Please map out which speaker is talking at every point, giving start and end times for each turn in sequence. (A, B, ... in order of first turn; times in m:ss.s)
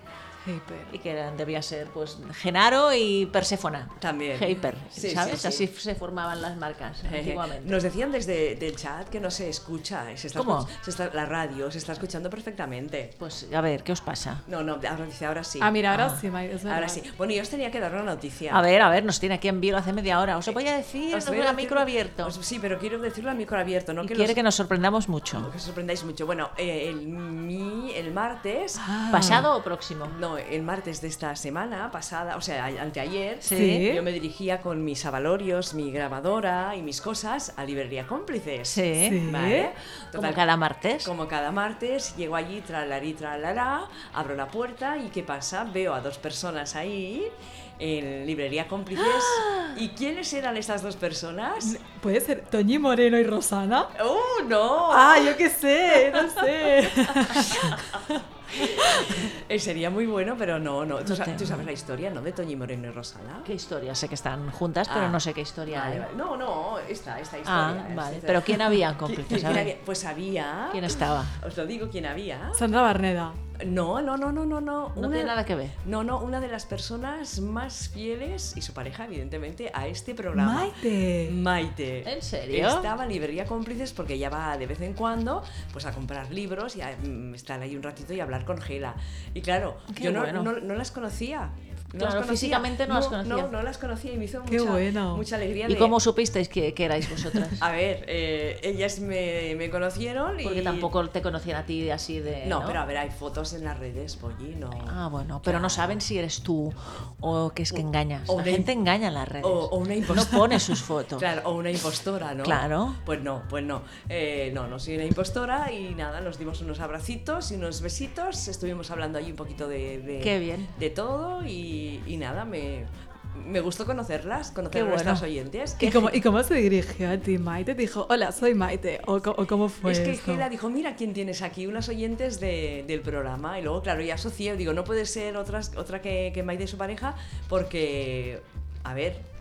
0:00.4-0:00.9 A
0:00.9-0:07.8 B
0:04.0-0:05.7 C
0:07.0-0:13.2 C
0:10.4-0:10.7 B
0:13.2-0:14.4 B
0:14.5-0:15.7 C
0:15.6-0:17.0 A
0:15.9-0:16.2 B
0:16.7-0:18.6 C
0:18.5-0:22.4 B
0:21.1-0:24.4 C
0:24.0-0:25.5 B
0:25.3-0:28.8 C
0:28.8-0:29.5 A
0:29.1-0:30.2 B
0:30.0-0:40.4 C
0:33.4-0:33.9 B
0:33.5-0:34.1 A
0:38.7-0:39.2 B
0:39.0-0:39.7 A
0:40.2-0:41.1 B
0:41.0-0:51.8 C
0:49.2-0:49.7 A
0:51.6-0:53.9 A
0:54.0-0:55.3 C
0:54.9-0:59.2 A
0:57.4-1:03.5 C
1:01.0-1:01.7 B
1:03.4-1:06.1 B
1:04.9-1:12.6 C
1:07.4-1:09.8 B
1:10.7-1:11.4 B
1:12.6-1:13.4 A
1:13.6-1:20.7 C
1:15.0-1:15.8 B
1:20.4-1:21.4 A
1:21.2-1:36.0 C
1:22.0-1:22.9 B
1:29.9-1:30.5 B
1:32.0-1:33.5 B
1:34.5-1:35.2 A
1:35.6-1:37.7 B
1:37.6-1:40.9 C
1:40.4-1:42.8 B
1:42.4-1:46.0 C
1:44.8-1:51.3 B
1:47.8-1:48.7 C
1:49.4-1:50.5 C
1:51.2-2:05.8 C
1:52.4-1:53.0 B
2:00.2-2:00.8 B
2:04.7-2:05.3 B
2:05.8-2:06.1 B
2:05.8-2:10.5 A
2:09.8-2:19.2 C